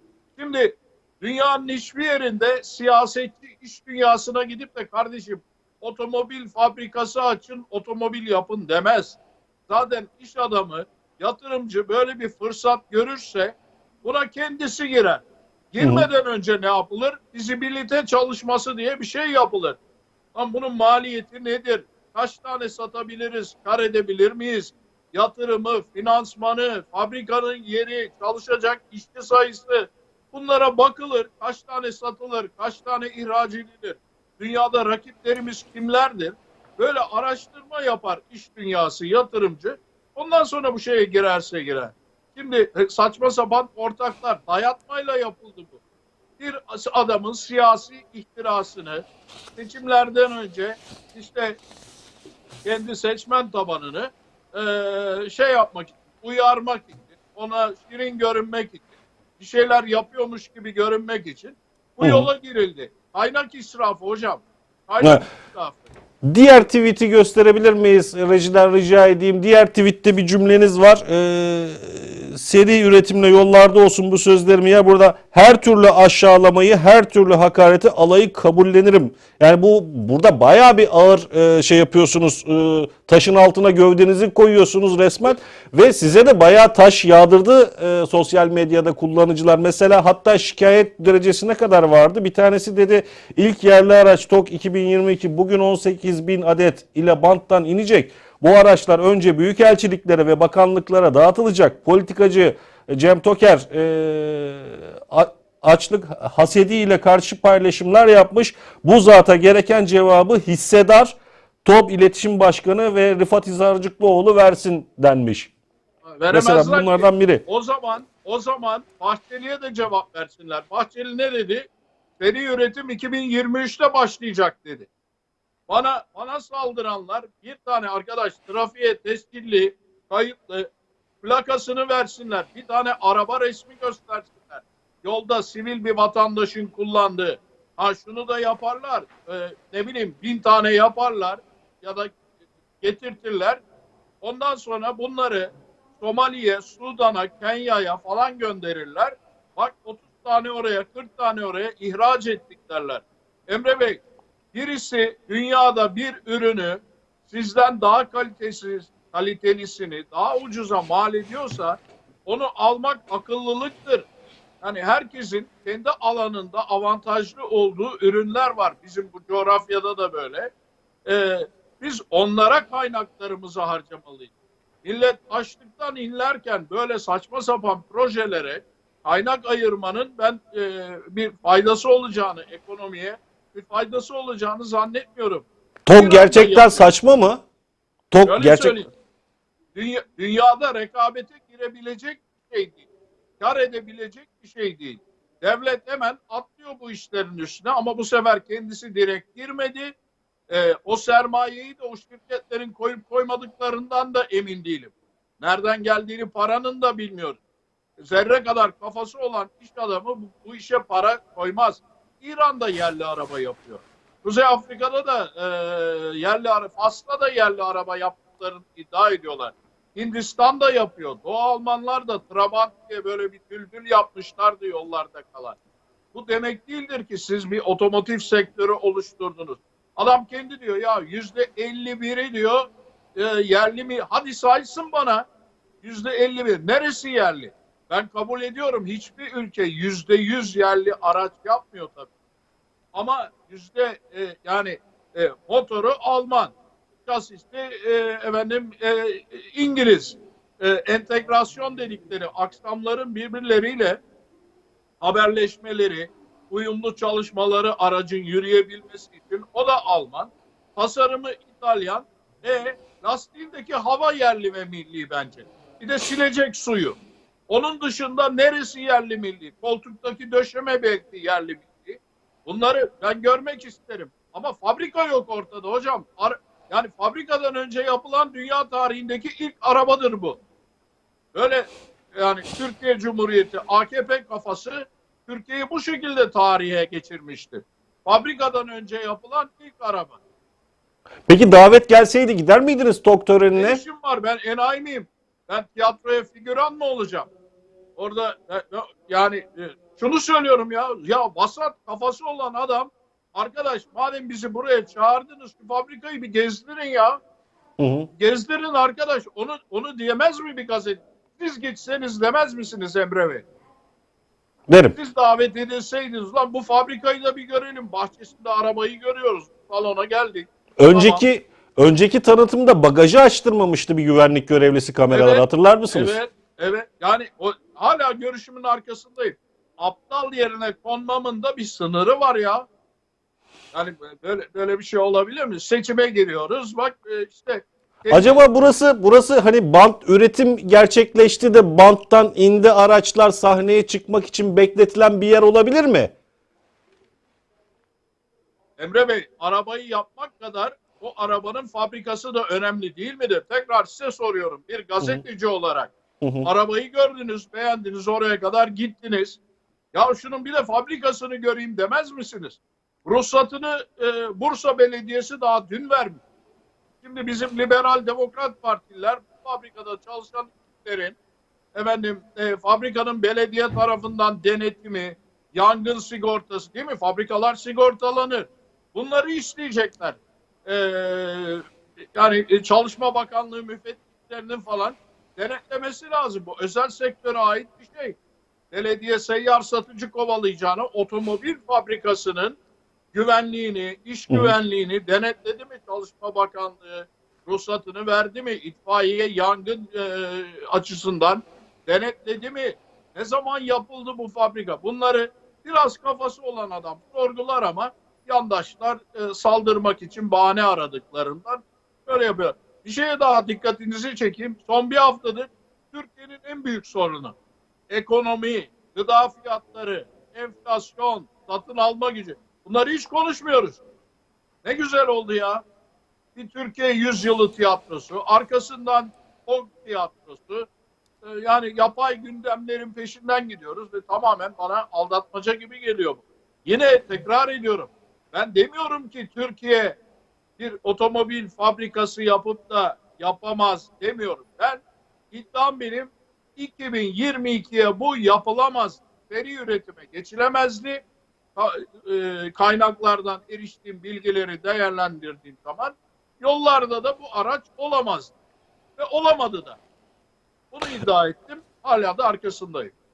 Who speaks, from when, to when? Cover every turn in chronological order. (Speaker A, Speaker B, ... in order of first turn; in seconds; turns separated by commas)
Speaker A: 0.3-19.8, Speaker B: 15.8-16.1, Speaker A: 20.3-45.8, Speaker A: 46.4-51.6, Speaker A: 52.6-65.9, Speaker B: 62.0-62.3, Speaker B: 66.2-115.5, Speaker A: 116.0-121.7, Speaker B: 116.3-117.4, Speaker A: 122.2-124.9, Speaker A: 125.7-130.7, Speaker A: 131.2-142.1, Speaker A: 142.8-143.6, Speaker A: 144.2-164.1, Speaker A: 164.6-170.5, Speaker A: 171.1-174.3, Speaker A: 174.8-186.9, Speaker B: 185.8-187.4, Speaker B: 188.1-188.8, Speaker A: 188.2-188.9, Speaker A: 189.7-192.9, Speaker A: 193.4-199.9, Speaker A: 200.5-207.4, Speaker A: 208.0-225.6, Speaker A: 226.1-235.3, Speaker A: 235.8-242.1, Speaker A: 242.9-246.5, Speaker A: 247.1-254.0, Speaker A: 255.0-280.4, Speaker A: 281.3-290.2, Speaker B: 291.3-293.8, Speaker A: 293.5-297.3, Speaker A: 298.0-307.2, Speaker B: 307.8-308.1, Speaker A: 308.2-313.4, Speaker B: 314.7-314.9, Speaker A: 314.9-321.2, Speaker B: 320.8-326.1, Speaker A: 325.1-332.6, Speaker A: 333.7-338.4, Speaker B: 338.1-346.1, Speaker A: 348.8-355.9, Speaker B: 356.2-356.5, Speaker A: 356.4-359.4, Speaker A: 359.9-366.2, Speaker A: 367.0-371.2, Speaker A: 371.7-381.6, Speaker A: 382.1-388.2, Speaker A: 388.7-392.6, Speaker A: 393.1-417.3, Speaker B: 394.3-394.5, Speaker A: 417.9-423.8, Speaker A: 424.6-425.6, Speaker A: 426.4-430.7, Speaker A: 431.2-440.0, Speaker A: 440.6-451.0, Speaker A: 451.6-458.3, Speaker A: 459.0-459.8, Speaker A: 460.7-462.9